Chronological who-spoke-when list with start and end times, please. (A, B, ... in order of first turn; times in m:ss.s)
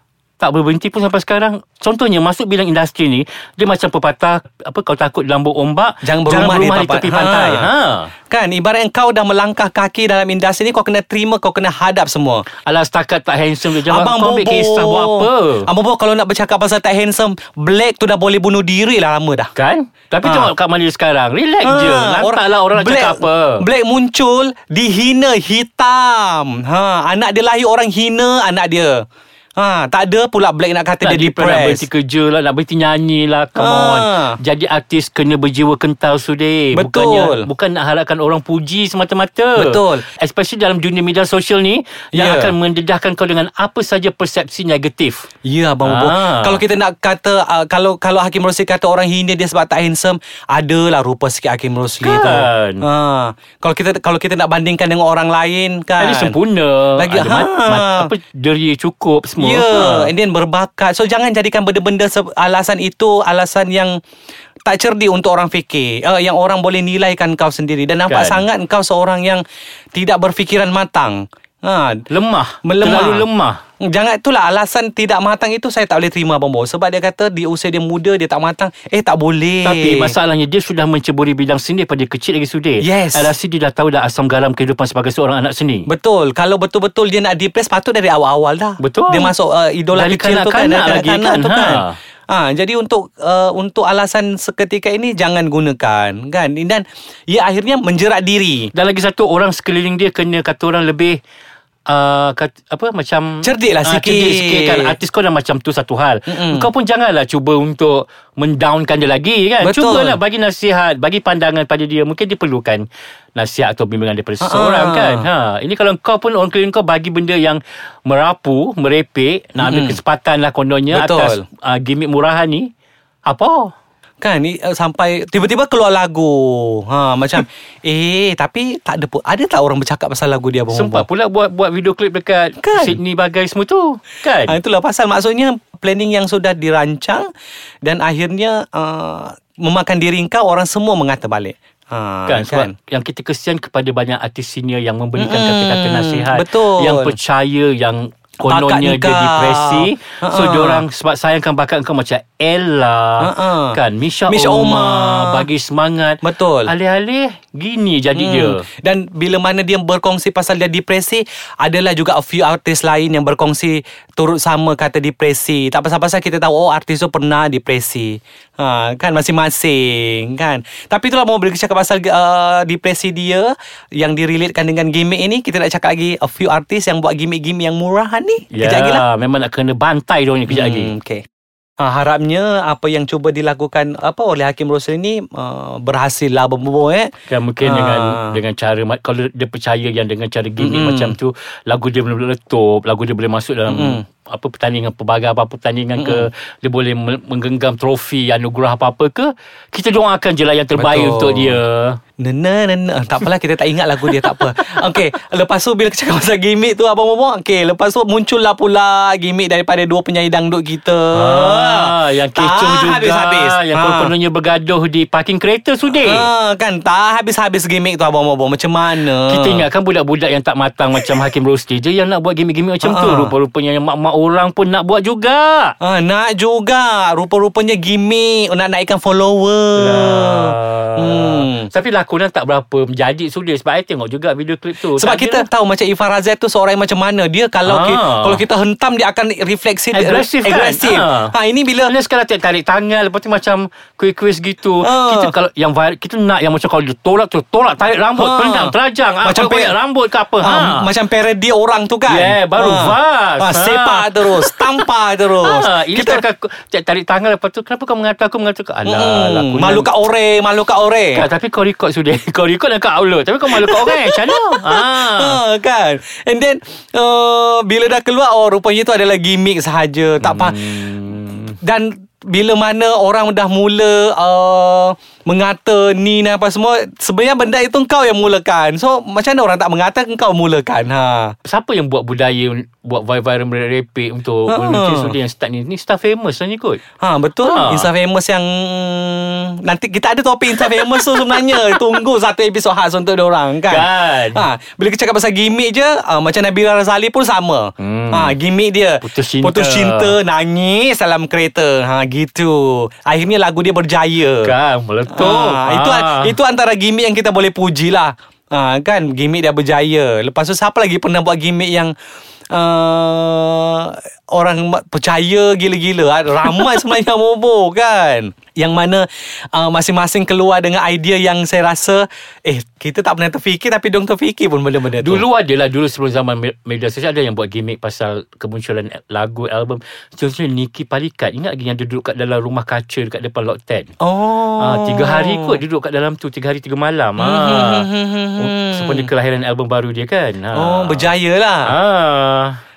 0:00.4-0:08.1 A
0:06.0-0:07.7 B
0:08.3-0:12.5 B
0:12.6-0:15.7 A
0:13.8-0:19.5 B
0:19.6-0:23.6 A
0:20.2-0:20.5 B
0:21.6-0:29.0 B
0:29.6-0:31.9 B
0:31.0-0:45.2 A
0:33.6-0:34.4 B
0:36.7-0:37.5 B
0:39.6-0:40.1 B
0:42.1-0:42.6 B
0:45.4-0:56.4 B
0:45.8-0:46.6 A
0:52.0-0:52.9 A
0:56.0-1:00.1 A
0:57.0-0:58.1 B
0:59.4-1:04.0 B
1:04.6-1:12.0 B
1:08.1-1:08.4 A
1:12.1-1:13.6 A
1:12.6-1:13.3 B
1:13.8-1:20.2 B
1:19.6-1:25.9 A
1:22.8-1:23.4 B
1:25.9-1:38.7 B
1:28.8-1:29.3 A
1:29.9-1:32.0 A
1:38.7-1:41.2 A
1:41.9-2:02.7 A
1:43.4-1:45.0 B
1:46.3-1:46.7 B
1:49.6-1:50.2 B
1:54.4-1:55.3 B
1:59.6-2:00.0 B
2:00.9-2:01.4 B
2:03.3-2:03.7 A
2:04.2-2:11.1 B
2:10.7-2:14.6 A
2:12.6-2:13.0 B
2:14.4-2:17.3 B
2:17.8-2:22.7 B
2:22.3-2:38.6 A
2:25.2-2:27.2 B
2:28.4-2:30.8 B
2:33.2-2:35.5 B
2:36.2-2:36.7 B
2:38.2-2:59.0 B
2:58.5-3:00.9 A
3:00.5-3:01.2 B
3:01.8-3:07.1 B
3:07.3-3:22.0 A
3:07.6-3:08.4 B
3:10.6-3:11.2 B
3:13.7-3:14.0 B
3:16.0-3:16.3 B
3:20.8-3:21.6 B
3:22.2-3:34.1 B
3:31.1-3:36.3 A
3:35.9-3:39.6 B
3:39.2-3:45.7 A
3:42.8-3:43.3 B
3:45.8-3:51.7 B
3:49.8-3:55.5 A
3:55.0-4:02.0 B
3:57.6-3:58.4 A
3:59.9-4:01.3 A
4:01.8-4:10.9 A
4:04.8-4:05.3 B
4:08.2-4:09.8 B
4:10.4-4:16.2 B
4:12.1-4:14.7 A
4:15.4-4:19.9 A
4:18.9-4:21.2 B
4:21.1-4:25.4 A
4:23.5-4:30.6 B
4:30.2-4:31.6 A
4:31.6-4:41.4 B
4:41.5-4:46.8 A
4:44.5-4:45.2 B
4:47.0-5:04.5 B
4:47.4-4:47.9 A
4:51.4-4:51.8 A
4:53.7-4:54.4 A
4:57.8-4:58.4 A
4:59.0-5:00.1 A
5:04.4-5:06.4 A
5:05.1-5:11.9 B
5:12.5-5:25.2 B
5:24.9-5:33.9 A
5:34.0-5:35.6 B
5:34.6-5:41.1 A
5:37.2-5:39.1 B
5:40.5-5:41.8 B
5:41.6-5:42.6 A